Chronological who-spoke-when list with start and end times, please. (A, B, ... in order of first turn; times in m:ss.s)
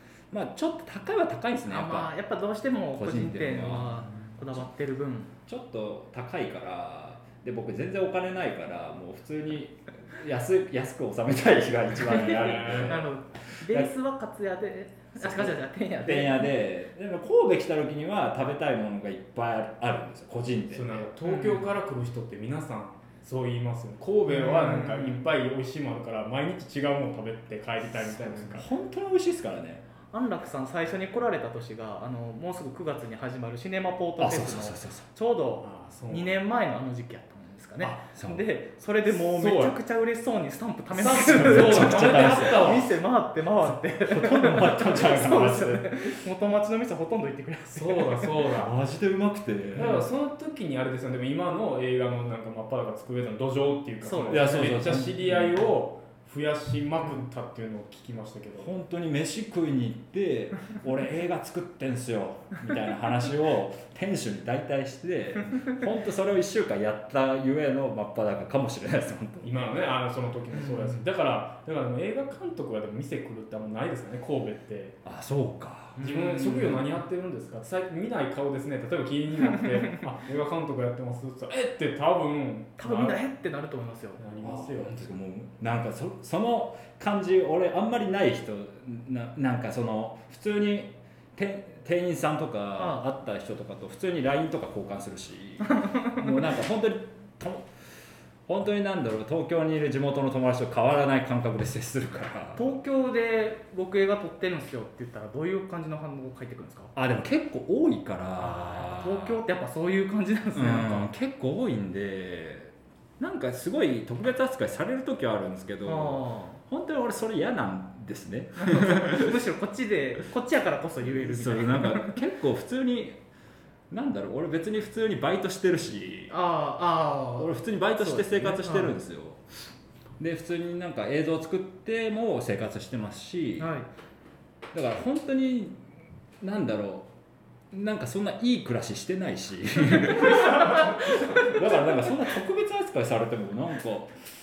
0:00.3-0:02.1 A
0:01.7-0:05.3 B
0:03.0-0:04.7 A
0:05.5-0:13.9 A
0:12.0-0:16.5 B
0:12.1-0:13.1 C
0:15.2-0:21.0 A
0:20.7-0:28.7 C
0:21.2-0:21.6 B
0:24.3-0:25.2 B
0:27.8-0:29.8 A
0:30.1-0:48.4 B
0:34.2-0:35.1 A
0:35.6-0:36.4 C
0:38.2-0:38.5 A
0:39.1-0:39.8 C
0:40.9-0:42.9 C
0:41.3-0:42.9 A
0:43.7-0:46.1 A
0:47.8-0:48.8 C
0:48.6-0:50.0 A
0:49.8-0:58.7 C
0:54.0-0:54.5 B
0:54.3-0:55.6 A
0:58.6-1:09.7 A
1:09.4-1:15.0 C
1:10.5-1:11.0 B
1:15.0-1:16.8 A
1:16.0-1:16.7 B
1:16.0-1:23.2 C
1:22.8-1:24.2 B
1:24.2-1:25.0 C
1:24.4-1:37.7 A
1:32.8-1:33.1 B
1:35.8-1:36.2 B
1:38.5-1:42.7 A
1:42.6-1:46.9 B
1:47.0-1:49.4 A
1:48.4-1:51.1 B
1:50.5-1:59.4 A
1:55.8-1:56.6 B
1:58.6-2:02.2 B
2:01.0-2:03.2 A
2:03.9-2:06.3 A
2:06.3-2:09.0 B
2:07.4-2:09.4 A
2:10.2-2:13.8 A
2:13.6-2:13.9 B
2:14.7-2:15.8 A
2:16.4-2:17.1 A
2:17.7-2:24.2 A
2:20.0-2:21.5 B